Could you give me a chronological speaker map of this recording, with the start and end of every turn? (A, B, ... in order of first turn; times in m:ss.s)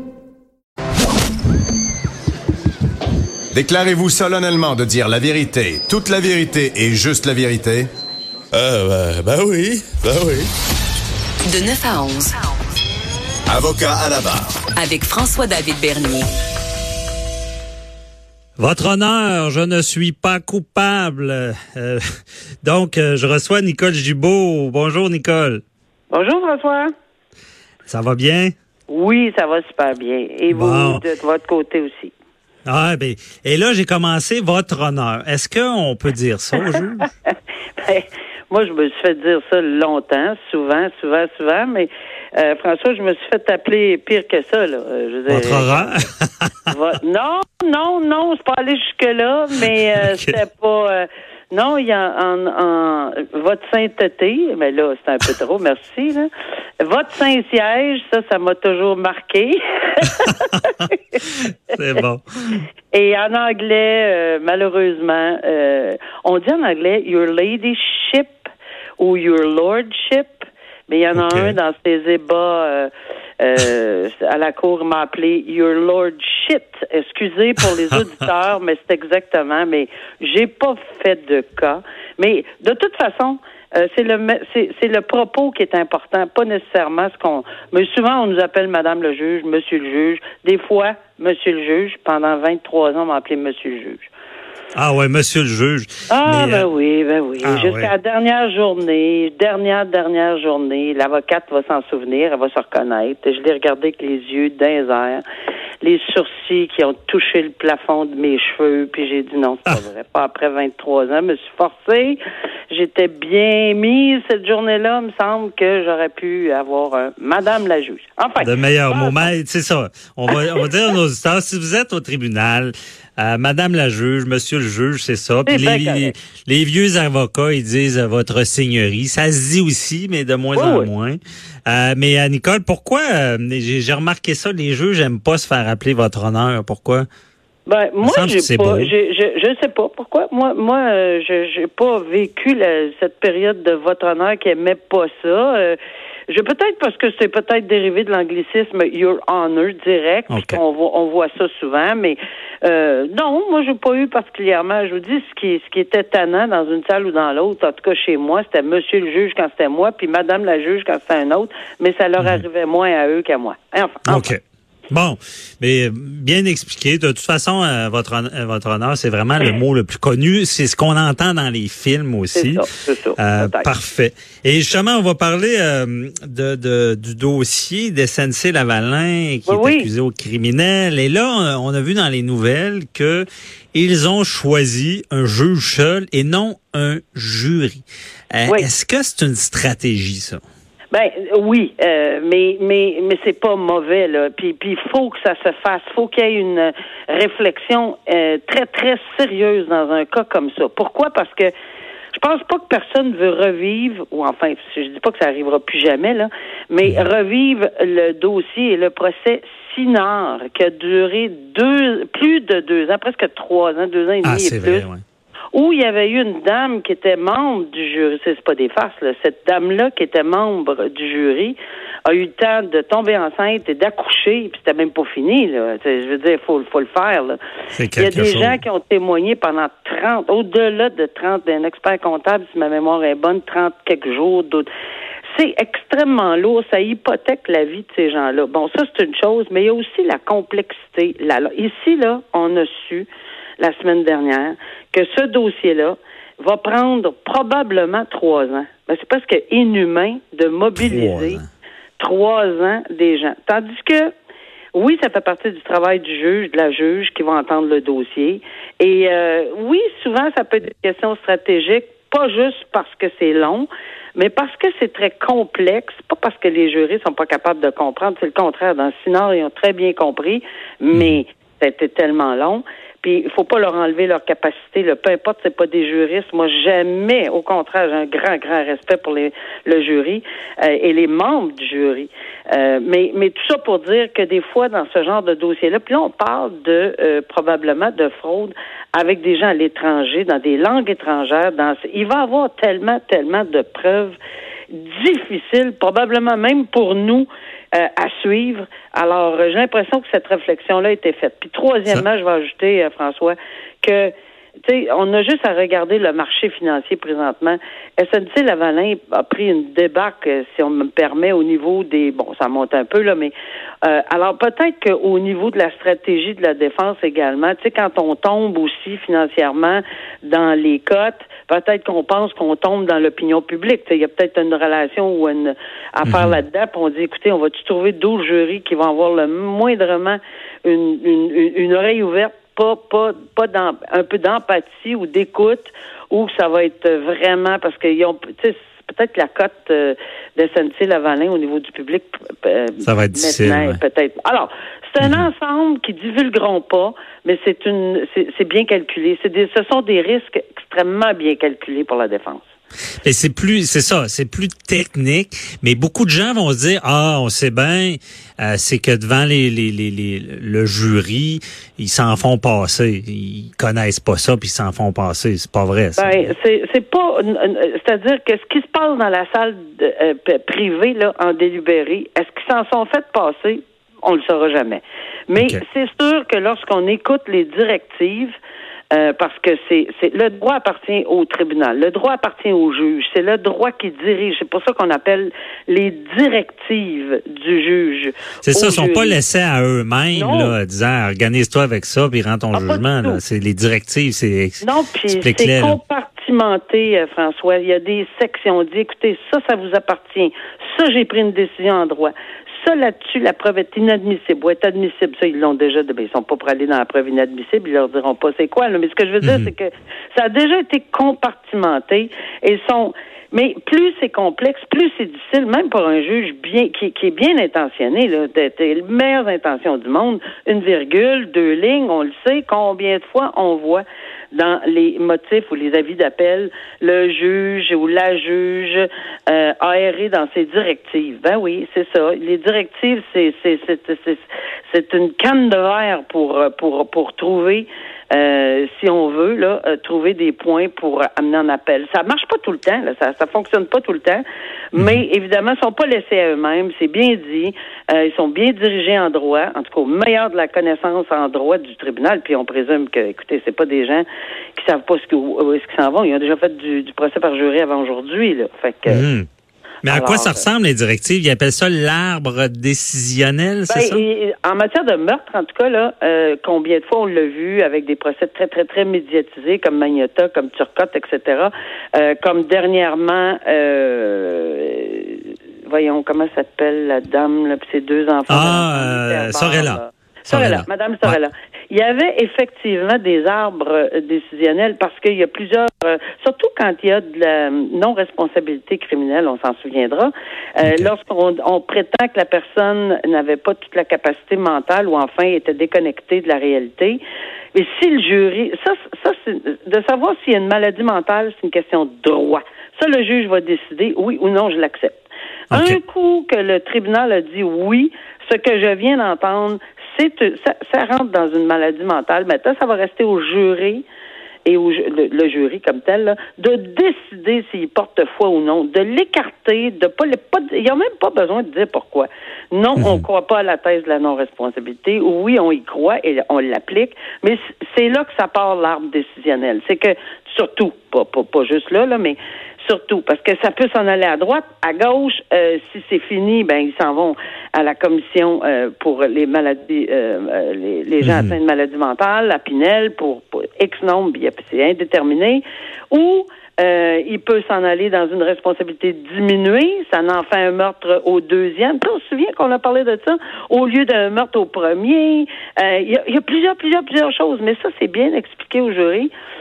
0:03.5-0:07.9 A
0:08.5-0:10.5 B
0:11.4-0:12.4 C
0:13.5-0:14.5 A
0:14.7-0:16.3 C
0:18.6-0:22.0 D
0:22.6-0:25.6 D
0:26.1-0:26.9 E
0:27.9-0:28.5 D
0:28.9-0:32.1 E
0:30.5-0:31.0 D
0:32.7-0:37.1 D
0:37.3-0:46.0 E
0:45.3-0:46.6 D
0:46.7-0:56.3 E
0:50.0-0:50.4 D
0:56.8-1:01.0 E
1:00.2-1:00.5 D
1:01.2-1:02.6 D
1:02.9-1:08.5 E
1:09.0-1:34.1 E
1:11.2-1:11.6 D
1:34.8-1:36.7 D
1:36.1-1:45.2 E
1:37.4-1:37.9 D
1:45.8-1:52.2 E
1:52.7-1:59.3 E
1:58.4-2:17.1 D
2:05.5-2:06.1 E
2:10.5-2:10.9 E
2:17.7-2:25.8 E
2:18.0-2:18.9 D
2:26.3-2:44.3 E
2:30.3-2:30.6 D
2:42.2-2:42.4 D
2:44.1-2:44.4 D
2:44.9-2:52.6 D
2:52.3-2:53.7 E
2:53.2-3:10.4 D
2:59.5-2:59.9 E
3:10.9-3:21.5 E
3:22.1-3:34.8 E
3:34.2-3:35.0 D
3:35.5-3:47.4 E
3:47.8-3:48.6 D
3:48.0-3:54.7 E
3:55.3-4:11.4 E
4:10.8-4:11.4 D
4:12.0-4:14.1 E
4:14.7-4:54.2 E
4:30.9-4:31.2 D
4:54.7-5:04.1 E
5:04.7-5:52.4 E
5:26.0-5:26.4 D
5:42.8-5:43.8 D
5:45.0-5:45.3 D
5:53.0-6:06.3 D
6:06.0-6:18.4 E
6:18.9-6:29.2 E
6:28.4-6:35.8 D
6:30.2-6:30.6 E
6:32.5-6:33.2 E
6:34.6-7:24.2 E
6:49.2-6:49.5 D
7:24.7-7:34.0 E
7:24.8-7:25.0 D
7:34.6-7:39.0 E
7:38.9-7:39.3 D
7:39.8-7:44.0 D
7:39.9-7:40.4 E
7:43.7-8:17.0 E
7:58.3-8:01.2 D
8:10.6-8:10.9 D
8:17.5-8:25.0 E
8:25.5-8:25.8 D
8:25.5-8:33.8 E
8:34.4-9:19.1 E
8:42.8-8:43.0 D
9:01.0-9:01.4 D